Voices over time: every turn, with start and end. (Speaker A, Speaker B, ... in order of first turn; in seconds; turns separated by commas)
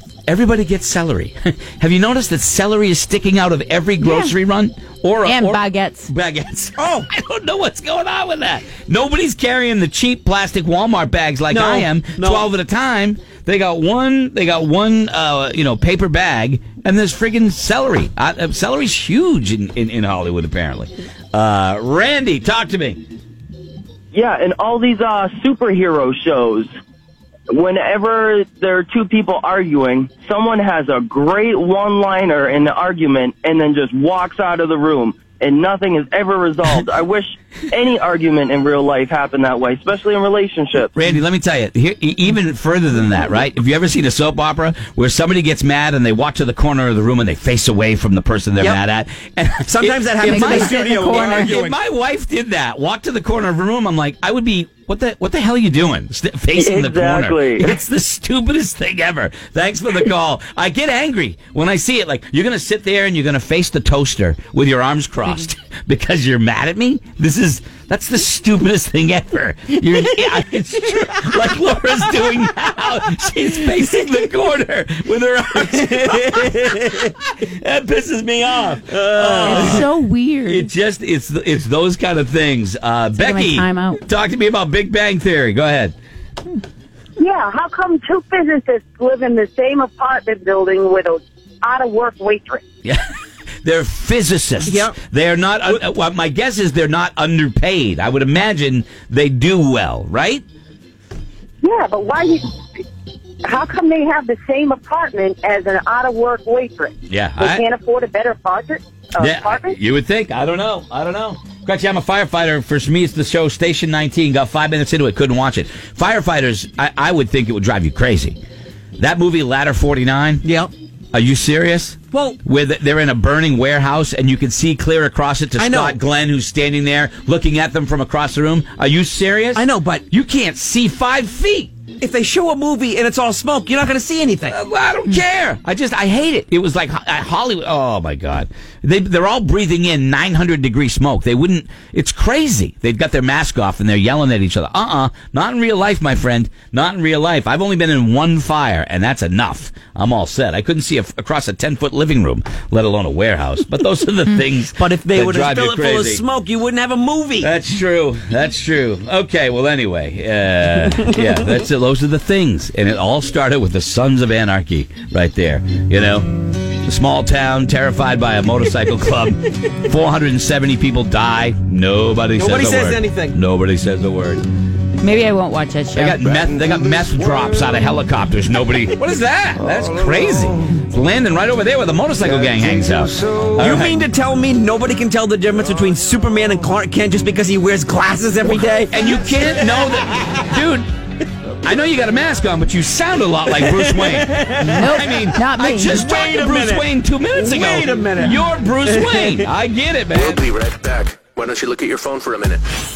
Speaker A: 0.3-23.0, Speaker B: 4.0-4.3, Speaker B: 5.2-6.1, Speaker C: 6.8-7.1, Speaker C: 11.5-12.4, Speaker D: 24.1-26.7, Speaker D: 27.5-40.9, Speaker A: 40.9-79.9, Speaker C: 49.7-51.8, Speaker B: 50.2-51.5, Speaker D: 56.5-57.7, Speaker C: 76.0-76.7, Speaker C: 79.1-79.8, Speaker B: 79.4-80.7, Speaker A: 80.4-85.9, Speaker B: 83.1-84.0, Speaker E: 87.2-92.6, Speaker A: 93.6-100.4, Speaker C: 94.7-95.0, Speaker E: 101.6-102.5, Speaker E: 103.4-109.8, Speaker A: 107.1-107.7, Speaker A: 109.2-118.4, Speaker A: 119.0-120.4, Speaker C: 120.4-120.7, Speaker A: 121.1-131.7, Speaker C: 122.1-122.4, Speaker C: 125.6-126.0, Speaker C: 129.5-130.0, Speaker C: 132.0-134.6, Speaker A: 134.5-156.2, Speaker C: 154.8-157.5, Speaker A: 157.4-166.3, Speaker A: 166.8-174.4, Speaker C: 172.3-173.4, Speaker B: 175.0-176.3, Speaker A: 175.9-183.9, Speaker C: 183.6-189.9, Speaker A: 188.4-190.9, Speaker A: 191.6-200.4, Speaker C: 193.5-195.2, Speaker B: 194.6-196.1, Speaker C: 196.0-199.5, Speaker F: 200.3-202.6